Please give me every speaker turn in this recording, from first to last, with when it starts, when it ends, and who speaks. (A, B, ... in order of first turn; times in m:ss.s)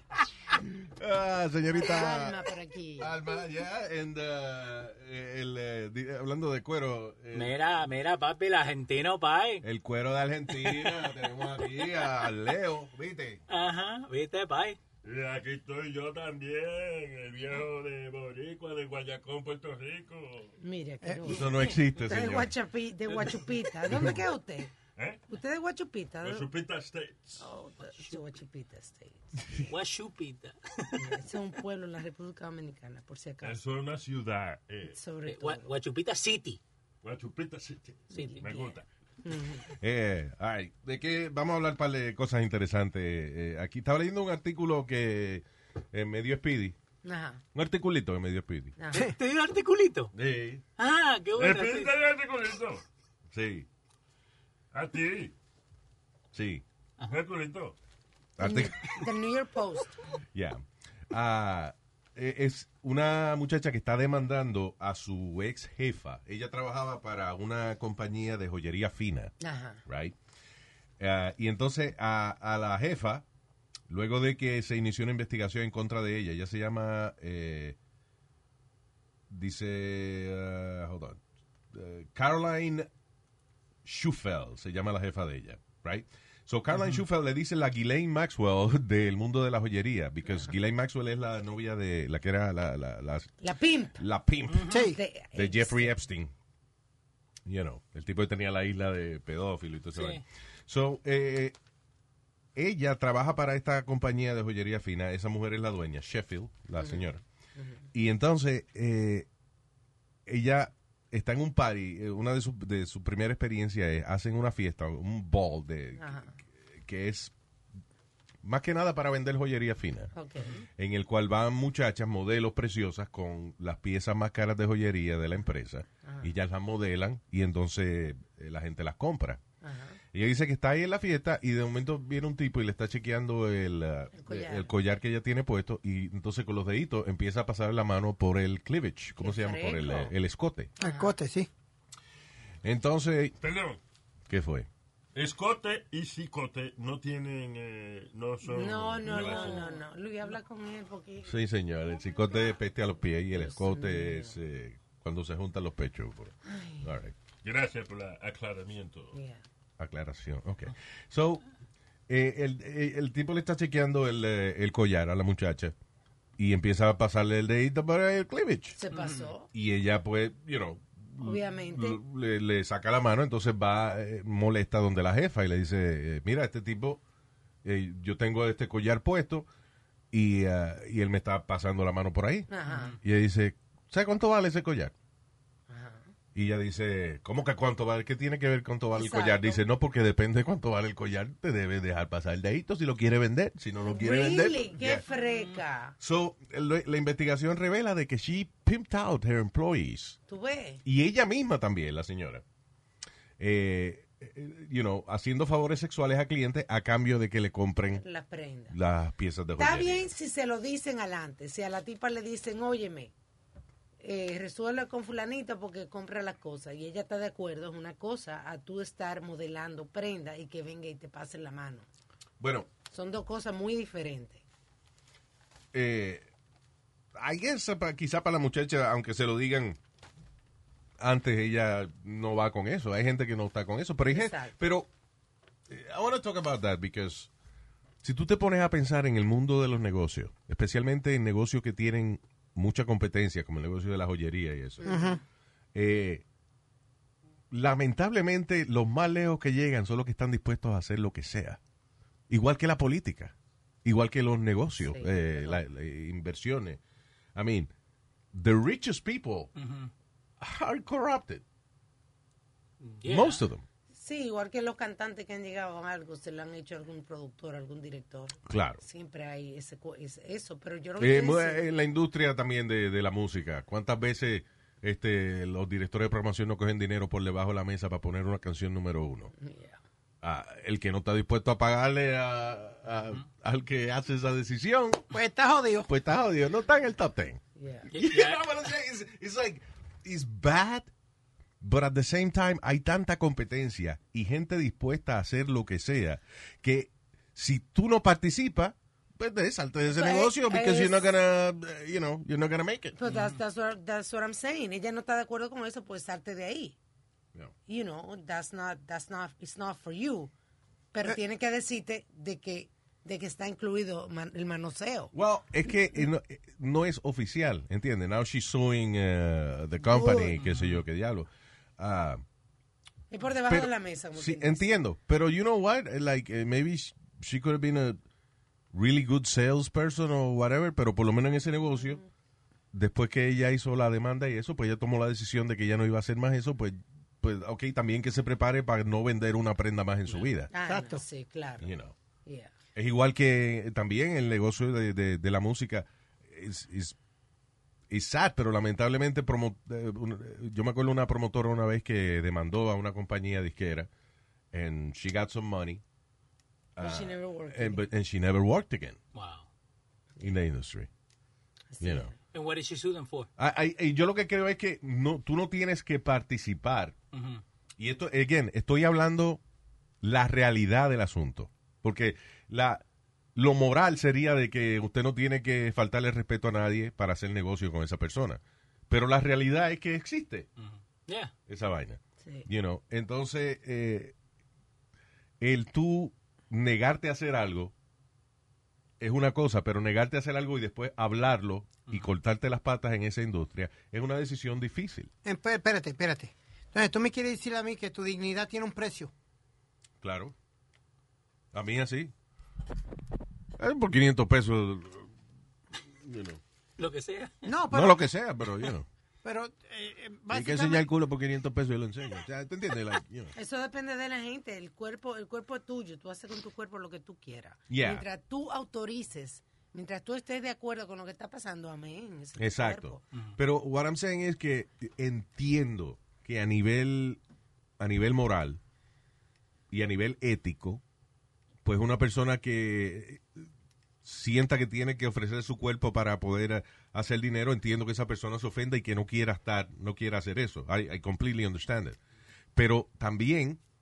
0:00.8-0:02.4 A
0:01.8-0:03.1 B
0:03.0-0:07.5 A
0:07.3-0:09.6 C
0:09.6-0:13.4 A
0:10.6-0:11.1 C
0:13.5-0:14.8 C
0:15.0-0:20.5 D
0:20.6-0:24.7 B
0:21.0-0:21.4 E
0:21.2-0:22.5 A
0:23.1-0:24.2 D
0:25.0-0:25.2 D
0:25.3-0:26.5 B
0:26.2-0:27.4 D
0:27.4-0:29.4 B
0:29.7-0:31.2 C
0:31.0-0:33.6 B
0:33.4-0:35.0 D
0:34.9-0:35.7 B
0:35.3-0:36.6 C
0:37.0-0:38.8 D
0:38.1-0:39.6 B
0:38.1-0:38.5 C
0:39.7-0:46.8 A
0:47.0-0:47.4 B
0:47.5-0:48.8 A
0:48.8-0:49.0 B
0:48.9-0:50.1 C
0:50.1-0:50.6 A
0:50.8-0:52.0 C
0:51.4-0:52.8 D
0:53.3-0:53.7 A
0:54.7-0:55.3 D
0:56.3-0:56.6 A
0:57.0-0:57.7 D
0:58.4-0:59.0 A
0:58.4-0:59.9 B
1:00.3-1:09.3 A
1:09.4-1:09.8 B
1:09.8-1:10.2 A
1:11.0-1:13.2 A
1:13.9-1:17.8 A
1:19.3-1:21.2 A
1:21.7-1:22.9 A
1:23.8-1:33.3 A
1:26.7-1:27.0 C
1:33.4-1:34.0 B
1:34.0-1:34.7 A
1:34.5-1:34.8 C
1:34.7-1:35.0 E
1:34.7-1:35.9 B
1:35.3-1:36.3 A
1:37.4-1:41.5 A
1:39.9-1:40.2 C
1:42.6-1:47.2 A
1:47.6-1:47.8 B
1:47.9-1:49.3 A
1:50.2-1:56.2 A
1:56.0-1:56.3 B
1:56.8-1:57.3 A
1:58.4-2:00.1 A
2:00.1-2:00.6 B
2:00.8-2:09.4 A
2:06.0-2:06.3 B
2:09.6-2:10.0 B
2:10.1-2:20.7 A
2:14.1-2:14.7 B
2:19.2-2:20.1 B
2:20.8-2:21.5 E
2:20.8-2:21.1 B
2:22.6-2:23.4 A
2:23.4-2:23.8 D
2:24.3-2:24.7 A
2:25.1-2:29.6 D
2:28.5-2:31.3 B
2:29.0-2:29.6 A
2:31.2-2:37.1 A
2:32.0-2:32.6 B
2:33.3-2:34.4 B
2:36.4-2:36.9 B
2:37.4-2:39.2 D
2:39.1-2:39.4 B
2:39.8-2:41.4 A
2:42.1-2:45.7 A
2:46.4-2:48.8 A
2:48.8-2:49.5 B
2:48.9-2:49.3 C
2:49.5-2:57.0 A
2:51.2-2:52.0 B
2:57.6-2:59.5 A
3:00.1-3:04.9 A
3:02.5-3:03.0 B
3:02.7-3:03.0 C
3:05.7-3:06.1 B
3:06.3-3:15.0 A
3:08.9-3:09.6 B
3:13.8-3:15.9 B
3:16.0-3:20.2 A
3:20.3-3:20.8 B
3:20.8-3:22.4 A
3:23.4-3:28.0 A
3:27.9-3:28.8 B
3:28.7-3:30.1 A
3:29.6-3:33.1 B
3:34.0-3:41.9 B
3:42.4-3:42.7 A
3:42.9-3:44.4 B
3:45.7-3:46.3 A
3:47.1-3:49.8 A
3:51.0-3:54.9 A
3:54.1-3:54.6 B
3:55.7-3:57.3 A
3:58.0-4:04.9 A
4:04.8-4:05.1 B
4:04.8-4:05.2 E
4:05.7-4:06.2 A
4:07.5-4:11.6 A
4:12.3-4:13.3 A
4:13.8-4:16.8 A
4:14.8-4:15.6 B
4:17.3-4:17.7 A
4:18.3-4:19.5 A
4:19.6-4:19.9 C
4:20.4-4:21.4 A
4:22.8-4:23.4 C
4:23.0-4:23.6 A
4:23.9-4:31.7 B
4:28.5-4:28.8 A
4:31.0-4:39.3 A
4:39.4-4:39.8 B
4:40.2-4:45.0 A
4:45.1-4:45.9 E
4:45.9-4:50.9 A
4:47.6-4:47.9 B
4:47.9-4:48.4 C
4:51.6-5:03.0 A
4:59.9-5:01.0 B
5:03.0-5:06.8 B
5:03.0-5:03.3 C
5:07.7-5:10.3 B
5:10.9-5:15.1 B
5:15.1-5:22.2 A
5:19.9-5:20.3 B
5:20.4-5:20.8 C
5:23.1-5:24.7 B
5:23.5-5:28.0 A
5:28.7-5:32.0 A
5:32.7-5:40.5 A
5:40.5-5:41.7 B
5:40.6-5:41.0 E
5:41.6-5:41.9 A
5:42.2-5:42.5 B
5:42.7-5:47.0 A
5:47.9-5:53.9 A
5:54.5-5:55.8 A
5:56.8-5:59.0 A
5:56.8-5:57.9 B
5:59.1-5:59.4 C
6:00.2-6:00.9 A
6:01.7-6:02.1 B
6:01.8-6:02.1 A
6:02.3-6:03.3 C
6:03.4-6:07.0 A
6:07.1-6:07.4 C
6:07.8-6:09.4 A
6:10.0-6:12.8 A
6:13.3-6:20.5 A
6:20.6-6:21.3 C
6:21.5-6:24.1 A
6:22.2-6:22.5 B
6:25.4-6:27.7 A
6:29.0-6:35.1 A
6:35.2-6:39.1 E
6:40.0-6:40.3 A
6:41.5-6:42.1 A
6:43.6-6:45.1 A
6:46.0-6:46.4 A
6:46.8-6:47.3 C
6:47.4-6:48.0 E
6:47.7-6:48.9 A
6:49.2-6:50.9 E
6:50.3-6:53.3 A
6:53.3-7:03.0 B
6:57.7-6:58.0 A
7:02.4-7:07.2 A
7:07.8-7:08.6 A
7:09.7-7:10.8 A
7:11.6-7:13.4 A
7:14.0-7:22.0 A
7:22.5-7:23.6 A